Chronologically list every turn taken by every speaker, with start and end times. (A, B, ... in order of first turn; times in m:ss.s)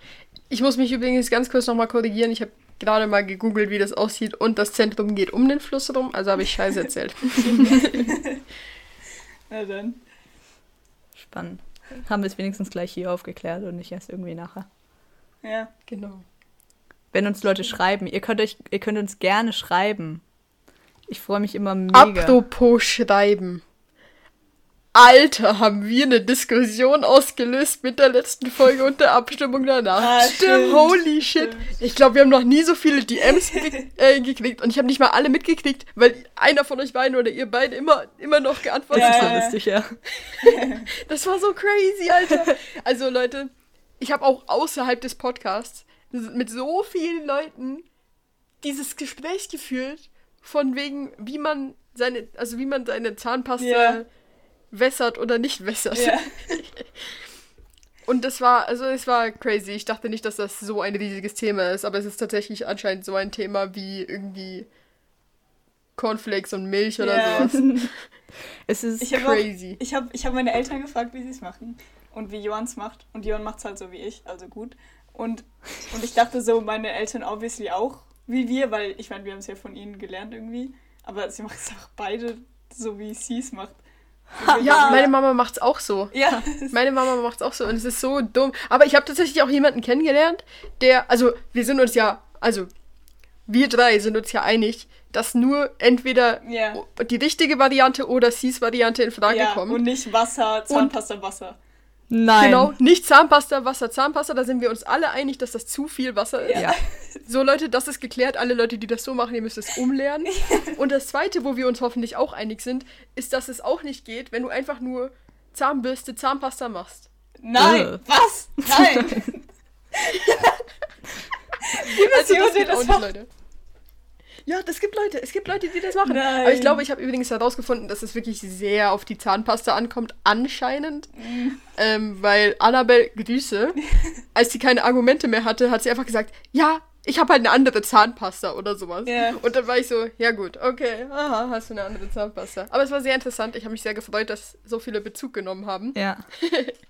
0:00.5-0:08.1 A
0:07.4-0:08.4 B
0:09.5-0:10.0 B
0:11.2-0:14.7 C
0:15.4-0:15.7 B
0:15.9-0:16.2 A
0:17.1-0:20.2 C
0:21.1-0:22.4 C
0:21.9-0:23.6 A
0:24.9-0:39.4 A
0:30.0-0:31.7 B
0:38.9-0:40.0 C
0:38.9-0:39.6 B
0:40.2-0:47.8 A
0:40.4-0:40.9 B
0:48.6-0:54.1 A
0:53.6-0:54.0 B
0:54.7-0:56.8 A
0:55.9-0:56.6 B
0:58.1-1:04.7 A
1:06.0-1:07.9 A
1:07.0-1:07.5 B
1:07.4-1:07.9 C
1:08.7-1:09.2 C
1:09.0-1:23.7 B
1:09.1-1:09.8 A
1:24.4-1:25.1 B
1:24.4-1:25.1 C
1:24.6-1:26.1 A
1:26.1-1:26.7 B
1:26.6-1:32.7 A
1:33.5-1:39.8 A
1:36.4-1:36.8 B
1:39.3-1:41.6 B
1:40.7-1:40.9 A
1:42.1-1:42.7 C
1:42.4-1:46.6 A
1:46.4-1:46.8 B
1:47.2-1:57.1 A
1:50.3-1:50.7 B
1:57.4-1:59.4 B
1:57.6-1:58.0 C
1:58.6-1:59.3 C
1:59.9-2:00.6 B
2:01.6-2:03.1 B
2:01.7-2:03.3 A
2:04.5-2:11.1 A
2:06.0-2:06.8 B
2:11.2-2:11.6 B
2:11.7-2:13.8 A
2:14.3-2:26.7 A
2:19.0-2:19.4 B
2:25.9-2:26.3 C